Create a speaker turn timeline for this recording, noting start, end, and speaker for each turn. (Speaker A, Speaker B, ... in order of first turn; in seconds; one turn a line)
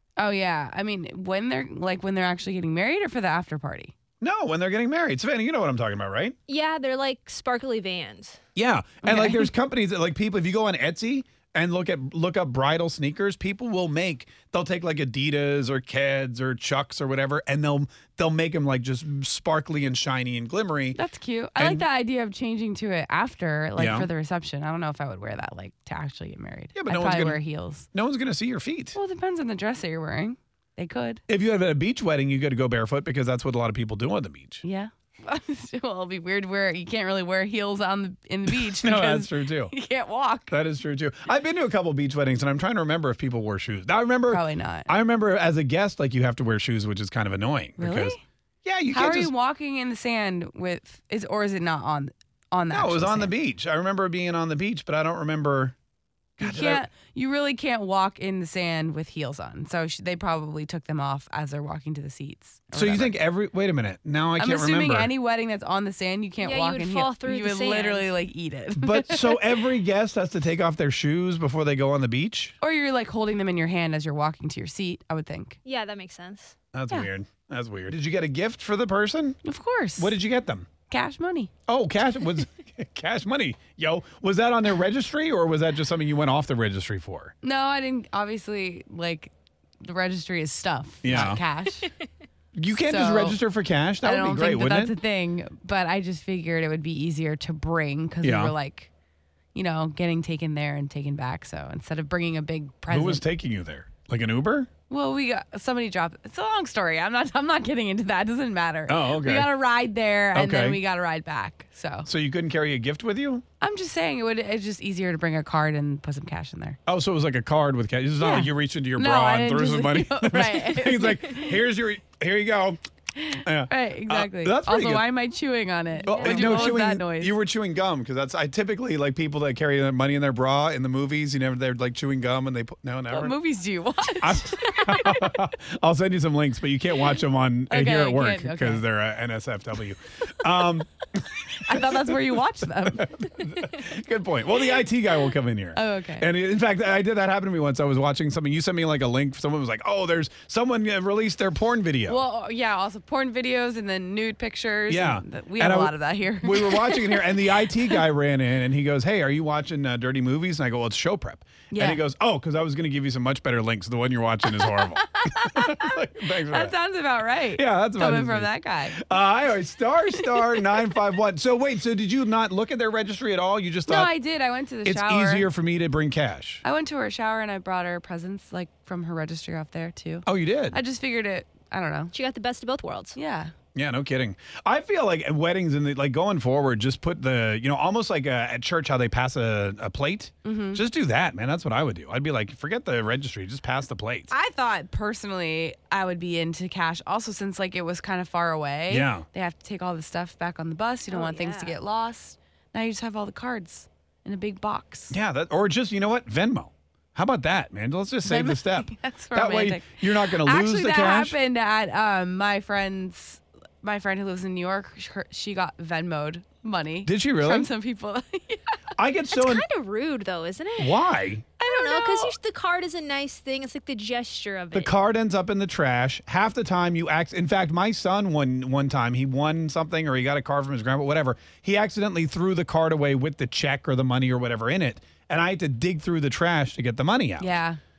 Speaker A: 0.2-3.9
Speaker B: 4.2-6.3
Speaker C: 6.5-8.4
Speaker B: 8.6-21.0
Speaker A: 9.0-9.5
Speaker A: 20.9-27.9
Speaker B: 21.6-21.8
Speaker B: 23.8-24.1
Speaker B: 26.8-27.4
Speaker B: 27.9-29.0
Speaker A: 28.9-31.2
Speaker B: 31.3-34.6
Speaker A: 34.6-40.5
Speaker B: 38.5-39.7
Speaker B: 40.5-49.3
Speaker A: 44.3-44.9
Speaker A: 47.8-48.2
Speaker A: 48.9-53.3
Speaker B: 52.7-55.8
Speaker B: 56.4-56.9
Speaker A: 56.4-63.2
Speaker B: 62.7-65.1
Speaker A: 64.4-69.6
Speaker C: 66.4-68.1
Speaker B: 68.8-72.5
Speaker A: 72.6-75.6
Speaker C: 75.6-76.5
Speaker B: 76.7-79.4
Speaker A: 79.4-80.2
Speaker B: 80.0-80.7
Speaker A: 80.9-81.5
Speaker B: 81.7-87.3
Speaker A: 87.4-91.9
Speaker B: 91.0-91.4
Speaker B: 92.5-95.0
Speaker A: 92.8-93.4
Speaker A: 94.0-98.9
Speaker B: 98.2-98.5
Speaker A: 99.5-103.2
Speaker B: 102.9-104.7
Speaker A: 104.9-112.1
Speaker B: 108.9-109.5
Speaker B: 110.3-110.8
Speaker B: 112.0-113.4
Speaker A: 113.6-116.8
Speaker B: 116.9-122.8
Speaker A: 118.2-121.6
Speaker A: 123.2-127.4
Speaker B: 123.3-125.0
Speaker B: 126.0-133.4
Speaker C: 126.0-126.8
Speaker A: 133.1-135.3
Speaker B: 134.2-152.2
Speaker A: 137.7-138.8
Speaker A: 141.5-143.3
Speaker A: 145.7-146.3
Speaker A: 152.1-158.0
Speaker B: 154.9-166.8
Speaker A: 161.7-162.0
Speaker A: 164.5-169.0
Speaker B: 167.5-174.1
Speaker A: 170.2-170.9
Speaker A: 173.9-175.5
Speaker B: 174.8-176.6
Speaker A: 176.6-182.1
Speaker B: 180.2-180.8
Speaker C: 182.1-183.2
Speaker A: 183.1-183.5
Speaker B: 183.8-194.3
Speaker A: 190.4-190.8
Speaker A: 194.3-205.1
Speaker B: 198.9-199.2
Speaker C: 201.1-201.8
Speaker B: 205.1-211.4
Speaker A: 208.2-218.8
Speaker B: 217.1-217.7
Speaker B: 219.0-219.6
Speaker C: 219.3-221.1
Speaker B: 220.8-222.3
Speaker C: 221.6-224.9
Speaker B: 224.7-237.6
Speaker A: 237.4-237.8